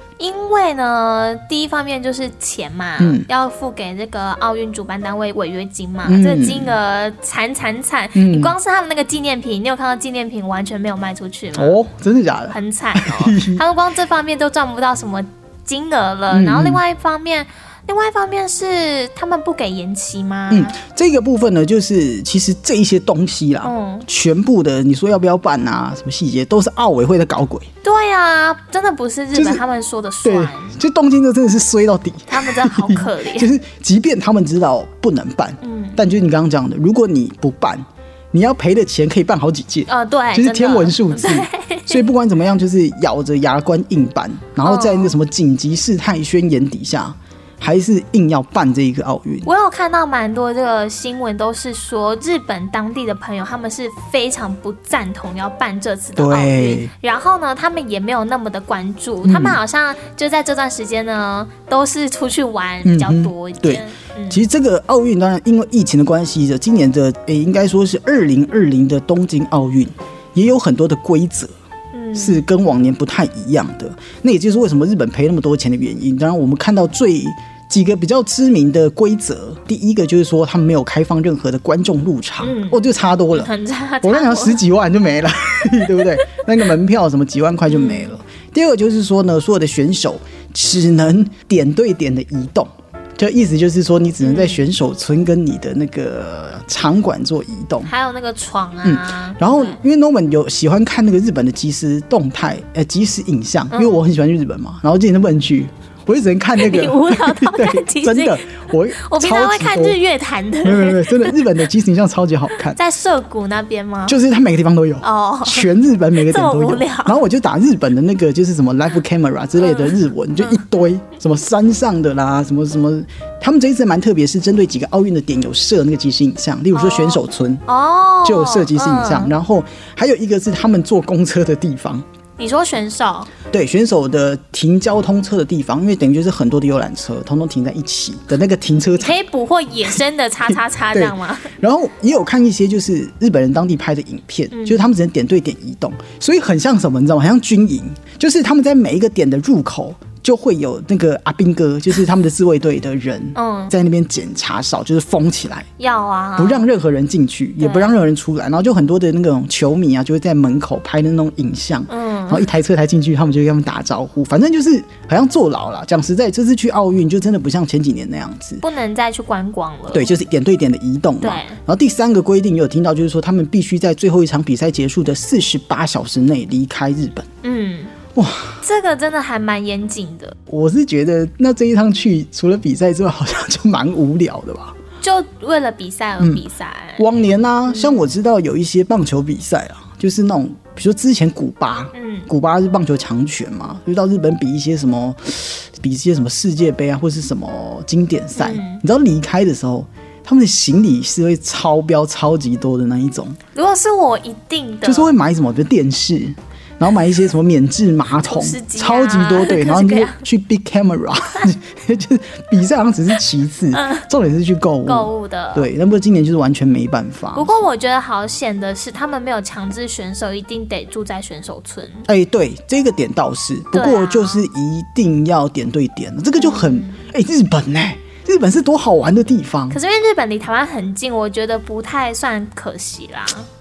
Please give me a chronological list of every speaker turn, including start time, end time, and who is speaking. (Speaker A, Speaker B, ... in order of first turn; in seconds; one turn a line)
Speaker A: 0.2-11.8
Speaker B: 3.0-3.3
Speaker B: 6.0-6.7
Speaker B: 8.2-8.5
Speaker B: 11.6-13.6
Speaker A: 12.5-20.8
Speaker B: 16.3-16.8
Speaker B: 20.5-27.7
Speaker A: 23.6-24.1
Speaker A: 27.8-30.7
Speaker B: 29.3-29.6
Speaker B: 30.2-49.5
Speaker A: 32.3-33.5
Speaker A: 35.6-36.0
Speaker A: 39.9-42.0
Speaker A: 44.6-45.1
Speaker A: 49.5-64.4
Speaker B: 56.2-56.9
Speaker B: 59.2-59.6
Speaker B: 62.8-71.5
Speaker A: 71.9-72.4
Speaker B: 72.2-83.5
Speaker A: 82.4-84.6
Speaker B: 84.0-97.9
Speaker A: 87.7-88.2
Speaker A: 94.2-94.6
Speaker A: 97.9-99.8
Speaker B: 98.8-110.0
Speaker A: 103.7-104.0
Speaker A: 106.6-108.4
Speaker A: 109.0-111.3
Speaker B: 110.6-112.8
Speaker A: 112.7-114.2
Speaker B: 114.1-127.6
Speaker A: 115.0-117.2
Speaker A: 119.6-120.6
Speaker A: 126.7-129.3
Speaker B: 128.2-132.0
Speaker A: 132.4-133.3
Speaker B: 133.5-139.2
Speaker A: 139.0-141.5
Speaker B: 140.9-155.7
Speaker A: 144.5-144.8
Speaker A: 153.3-153.7
Speaker A: 155.8-156.7
Speaker B: 156.4-168.6
Speaker A: 157.6-158.0
Speaker A: 161.9-162.5
Speaker A: 168.6-170.1
Speaker B: 169.9-177.3
Speaker A: 171.2-171.6
Speaker A: 177.4-177.9
Speaker B: 178.2-178.6
Speaker A: 178.6-180.4
Speaker B: 180.5-184.8
Speaker A: 185.0-187.0
Speaker B: 187.0-203.4
Speaker A: 187.7-188.0
Speaker A: 191.9-192.3
Speaker A: 198.4-198.8
Speaker A: 203.5-205.1
Speaker B: 204.8-217.6
Speaker A: 208.3-210.2
Speaker A: 213.7-214.0
Speaker A: 214.8-215.7
Speaker A: 217.3-222.1
Speaker B: 222.1-229.8
Speaker A: 223.7-224.4
Speaker A: 226.4-227.0
Speaker A: 229.7-233.5